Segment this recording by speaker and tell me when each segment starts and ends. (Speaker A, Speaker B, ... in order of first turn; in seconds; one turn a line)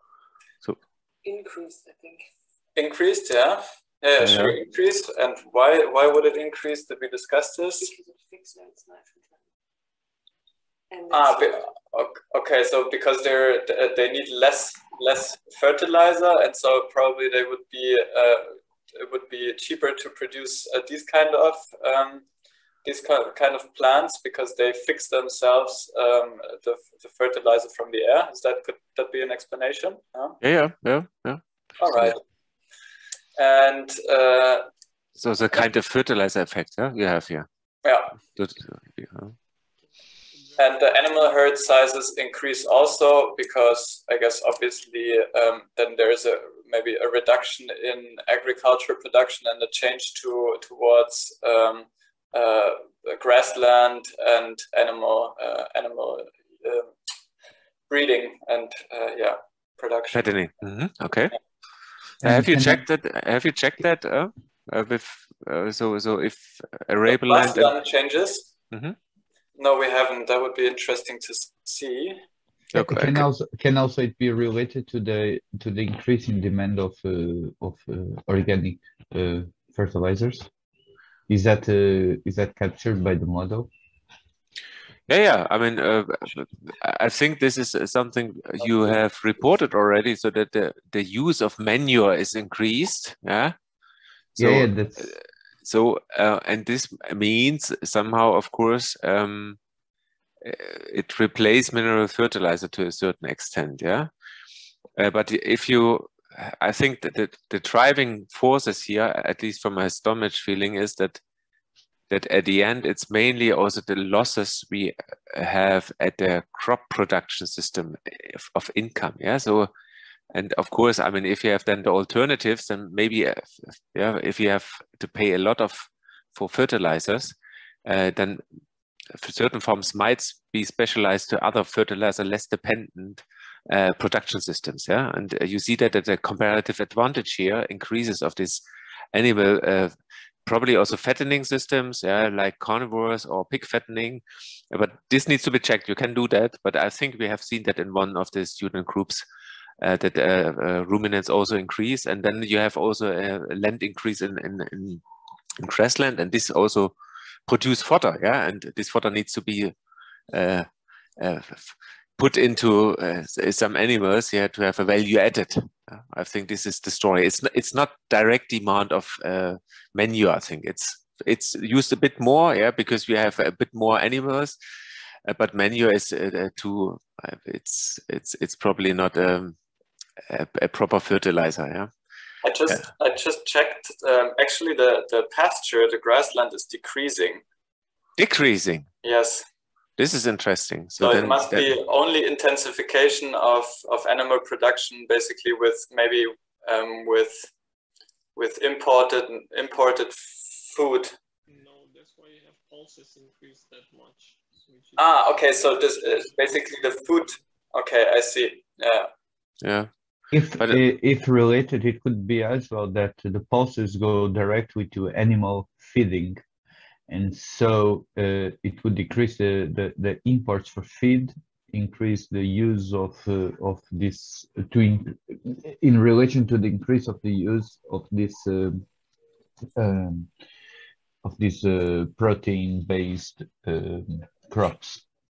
Speaker A: 1.2-2.2
Speaker B: 2.7-7.9
Speaker C: 4.2-4.5
Speaker A: 7.8-9.4
Speaker A: 10.9-11.6
Speaker B: 11.1-22.2
Speaker B: 22.8-30.4
Speaker C: 30.4-32.1
Speaker B: 31.8-32.2
Speaker B: 33.4-34.7
Speaker C: 35.2-37.5
Speaker B: 37.8-38.1
Speaker C: 38.3-39.3
Speaker B: 40.6-56.9
Speaker B: 57.9-60.3
Speaker C: 60.1-61.3
Speaker D: 62.2-62.8
Speaker C: 62.2-67.7
Speaker B: 67.1-68.5
Speaker C: 68.7-69.0
Speaker B: 69.6-72.2
Speaker C: 72.7-73.2
Speaker D: 72.7-80.5
Speaker D: 81.3-83.7
Speaker C: 85.1-93.5
Speaker D: 94.4-95.1
Speaker C: 94.4-99.6
Speaker C: 100.4-104.1
Speaker C: 105.0-111.2
Speaker C: 112.1-119.7
Speaker C: 120.3-128.4
Speaker C: 129.1-138.6
Speaker C: 139.1-139.9
Speaker C: 140.4-149.2
Speaker C: 149.8-155.0
Speaker C: 155.6-156.9
Speaker C: 157.5-159.7
Speaker C: 160.3-160.7
Speaker C: 161.2-174.6
Speaker C: 175.3-179.6
Speaker C: 180.3-181.9
Speaker B: 182.4-187.4
Speaker C: 188.2-188.9
Speaker B: 189.0-189.4
Speaker C: 190.0-191.7
Speaker B: 191.0-197.5
Speaker B: 198.3-201.1
Speaker E: 201.5-205.0
Speaker B: 205.0-209.1
Speaker C: 209.6-209.9
Speaker D: 210.3-216.4
Speaker C: 210.5-210.8
Speaker D: 217.1-228.8
Speaker D: 229.8-230.3
Speaker D: 231.2-235.0